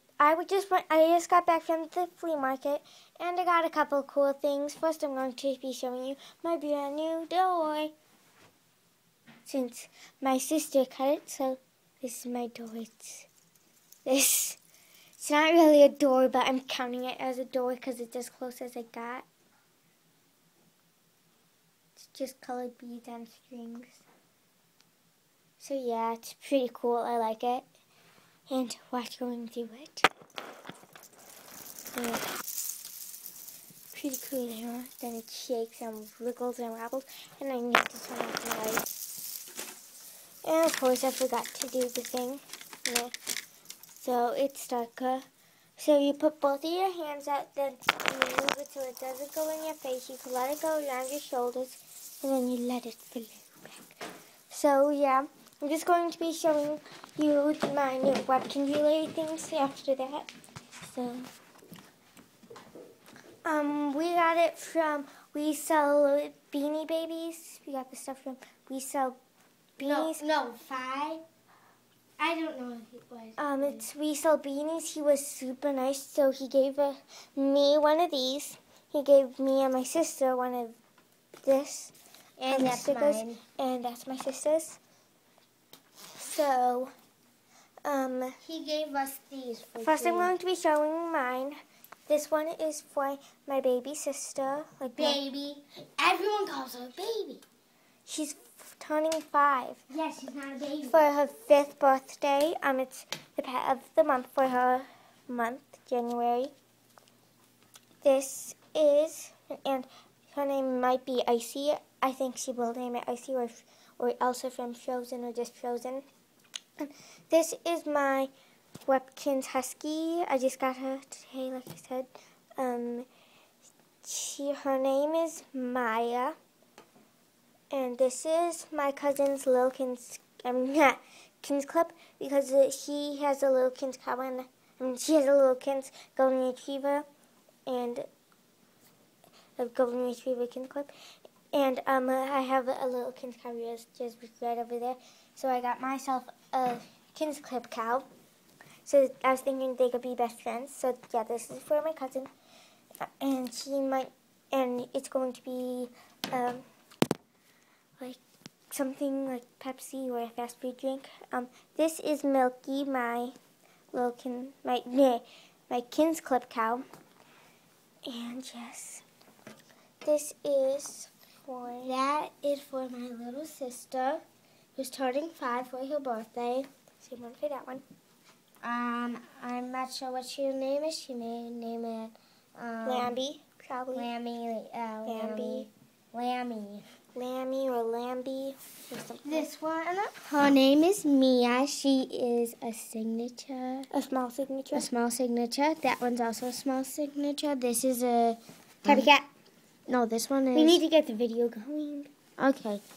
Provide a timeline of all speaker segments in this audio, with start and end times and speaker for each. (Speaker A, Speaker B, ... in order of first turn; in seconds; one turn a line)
Speaker A: 0.2-7.9
Speaker A: 9.5-13.3
Speaker A: 14.1-14.6
Speaker A: 15.2-19.3
Speaker A: 22.0-24.0
Speaker A: 25.6-27.7
Speaker A: 28.5-30.1
Speaker A: 31.9-32.3
Speaker A: 33.9-39.0
Speaker A: 40.4-43.1
Speaker A: 44.0-45.3
Speaker A: 45.8-54.0
Speaker A: 54.5-60.3
Speaker A: 60.8-61.3
Speaker A: 63.5-69.2
Speaker A: 69.8-70.3
Speaker B: 69.8-71.2
Speaker B: 72.2-73.8
Speaker A: 73.4-80.8
Speaker A: 81.4-81.9
Speaker B: 82.4-83.4
Speaker A: 82.5-84.8
Speaker A: 86.2-86.9
Speaker A: 87.8-88.4
Speaker B: 88.4-90.3
Speaker A: 89.8-95.2
Speaker B: 95.0-97.4
Speaker A: 98.1-99.8
Speaker B: 99.9-101.0
Speaker A: 100.8-106.5
Speaker A: 108.0-116.0
Speaker A: 116.8-118.3
Speaker A: 118.9-123.1
Speaker A: 124.0-126.4
Speaker A: 127.7-137.1
Speaker A: 137.7-138.1
Speaker A: 139.6-140.9
Speaker A: 141.5-148.1
Speaker A: 148.8-152.3
Speaker A: 153.0-156.6
Speaker A: 158.7-163.3
Speaker A: 163.9-166.8
Speaker A: 168.1-169.1
Speaker A: 170.0-171.9
Speaker B: 171.8-174.2
Speaker B: 174.8-176.7
Speaker A: 177.0-177.8
Speaker B: 178.6-183.2
Speaker A: 182.8-184.1
Speaker B: 183.9-186.8
Speaker A: 185.1-185.7
Speaker A: 187.2-189.5
Speaker B: 189.2-193.9
Speaker A: 193.9-194.9
Speaker B: 194.7-199.1
Speaker A: 198.8-199.3
Speaker B: 199.9-200.8
Speaker A: 200.5-202.1
Speaker B: 202.4-202.8